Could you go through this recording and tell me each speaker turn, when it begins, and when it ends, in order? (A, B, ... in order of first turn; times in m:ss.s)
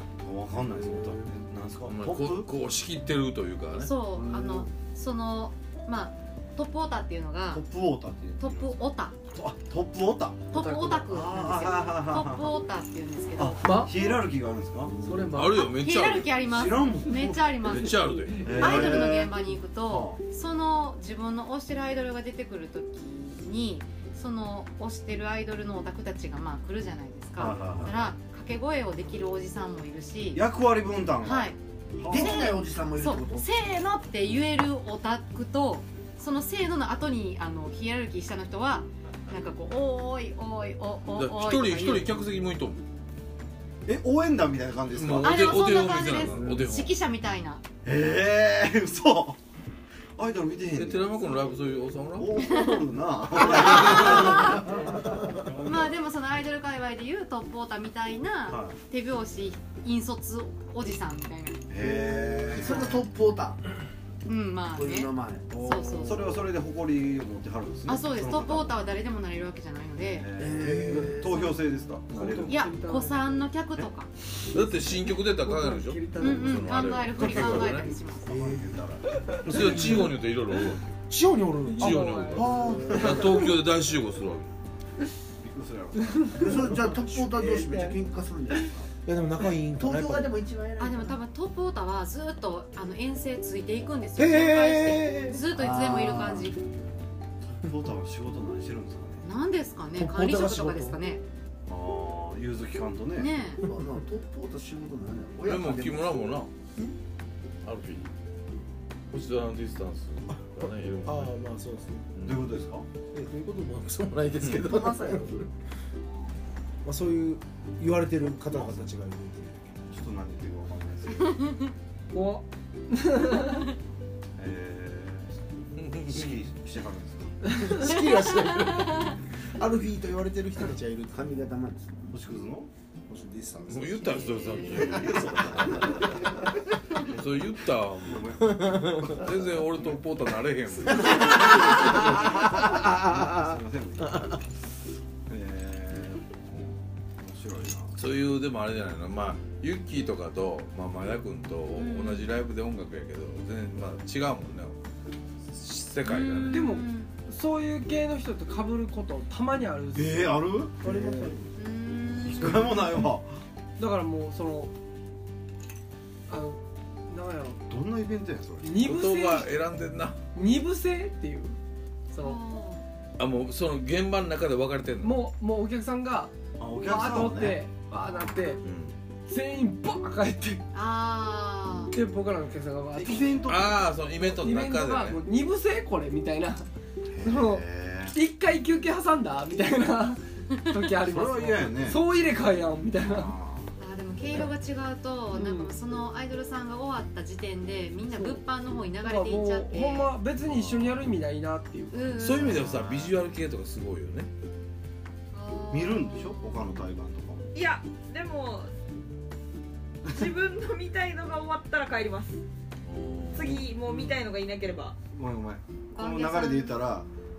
0:00.2-0:02.5 A
0:01.8-0:03.9 B
0:03.7-0:07.6 C
0:04.2-0:04.7 D
0:07.5-0:08.6 A
0:08.4-0:09.2 C
0:09.3-0:10.6 A
0:10.5-0:13.8 C
0:10.5-0:11.2 E
0:11.1-0:12.6 A
0:13.4-0:15.0 A
0:13.6-0:14.0 E
0:15.0-0:15.7 E
0:15.3-0:16.5 B
0:15.6-0:18.0 C
0:16.5-0:17.8 A
0:17.6-0:19.1 B
0:17.9-0:18.6 E
0:18.4-0:20.2 A
0:18.5-0:30.4 C
0:27.4-0:28.1 A
0:30.3-0:32.4 A
0:31.2-0:31.6 C
0:32.1-0:33.4 D
0:32.1-0:42.1 C
0:41.2-0:42.8 B
0:43.9-0:45.5 A
0:44.9-0:46.9 B
0:45.2-0:47.6 C
0:46.1-0:46.5 A
0:47.8-0:49.4 A
0:50.2-0:51.5 A
0:50.7-0:52.3 B
0:52.1-0:56.0 A
0:52.4-0:52.8 C
0:53.4-0:54.8 C
0:53.7-0:54.2 B
0:55.6-1:01.6 C
0:58.5-0:58.8 A
1:01.7-1:03.1 A
1:01.8-1:03.6 D
1:04.3-1:06.2 C
1:04.7-1:06.2 D
1:05.5-1:08.8 A
1:07.9-1:10.3 C
1:10.0-1:12.7 A
1:10.4-1:11.4 D
1:10.6-1:11.3 F
1:12.1-1:12.4 F
1:12.2-1:13.6 E
1:12.5-1:14.1 C
1:14.5-1:17.9 B
1:14.5-1:17.8 E
1:16.2-1:18.3 C
1:18.2-1:20.2 A
1:18.2-1:18.7 D
1:19.1-1:19.5 E
1:19.5-1:21.0 B
1:21.1-1:23.5 F
1:21.6-1:23.1 E
1:21.8-1:24.5 B
1:22.7-1:23.4 D
1:25.4-1:26.8 A
1:26.2-1:28.9 D
1:26.9-1:27.6 F
1:29.0-1:30.3 F
1:29.8-1:31.2 D
1:30.8-1:36.6 C
1:34.2-1:35.4 F
1:35.5-1:36.5 D
1:37.4-1:39.3 A
1:39.2-1:41.2 C
1:39.9-1:41.0 F
1:41.7-1:43.3 A
1:43.2-1:43.6 C
1:43.6-1:46.4 D
1:45.4-1:46.5 B
1:47.6-1:48.1 B
1:49.1-1:51.3 B
1:51.0-1:52.1 F
1:52.1-1:52.5 B
1:52.2-1:52.9 A
1:53.1-1:55.5 F
1:54.5-1:55.5 D
1:56.8-1:59.8 F
1:58.5-1:58.9 A
1:59.9-2:01.5 A
2:02.1-2:03.7 E
2:04.4-2:07.4 A
2:05.8-2:06.4 B
2:07.5-2:11.4 F
2:11.1-2:12.2 D
2:12.1-2:12.7 A
2:13.1-2:15.4 F
2:13.7-2:16.2 B
2:14.4-2:15.0 C
2:17.0-2:22.0 B
2:18.0-2:19.1 A
2:18.6-2:19.2 F
2:20.9-2:24.4 A
2:21.9-2:22.9 F
2:25.3-2:26.7 A
2:27.2-2:28.0 A
2:27.9-2:34.8 B
2:31.8-2:32.3 C
2:35.5-2:36.6 B
2:36.0-2:37.1 C
2:36.5-2:41.5 E
2:39.9-2:41.2 A
2:41.6-2:42.6 C
2:42.2-2:43.4 A
2:43.8-2:44.7 E
2:46.3-2:47.6 E
2:47.7-2:48.9 A
2:48.6-2:49.5 E
2:48.8-2:50.2 B
2:50.4-2:51.6 E
2:52.1-2:52.4 E
2:52.2-2:52.8 C
2:53.2-2:55.2 B
2:55.0-2:58.6 E
2:56.6-2:57.6 A
2:58.6-2:59.0 B
2:59.3-3:00.6 E
3:00.7-3:02.0 C
3:01.9-3:03.5 E
3:02.9-3:04.1 A
3:03.5-3:05.2 B
3:04.2-3:06.7 E
3:07.1-3:08.2 A
3:07.2-3:13.4 E
3:11.0-3:12.1 A
3:13.0-3:14.5 A
3:13.8-3:20.2 C
3:15.3-3:15.7 E
3:18.1-3:18.4 E
3:19.0-3:22.1 E
3:20.5-3:21.0 B
3:21.9-3:22.6 C
3:22.2-3:24.3 B
3:22.4-3:23.1 A
3:25.3-3:26.7 C
3:25.7-3:27.6 A
3:27.5-3:28.7 G
3:30.1-3:32.4 G
3:30.1-3:30.4 A
3:32.8-3:34.3 B
3:33.4-3:35.0 G
3:35.1-3:37.1 A
3:36.0-3:36.8 C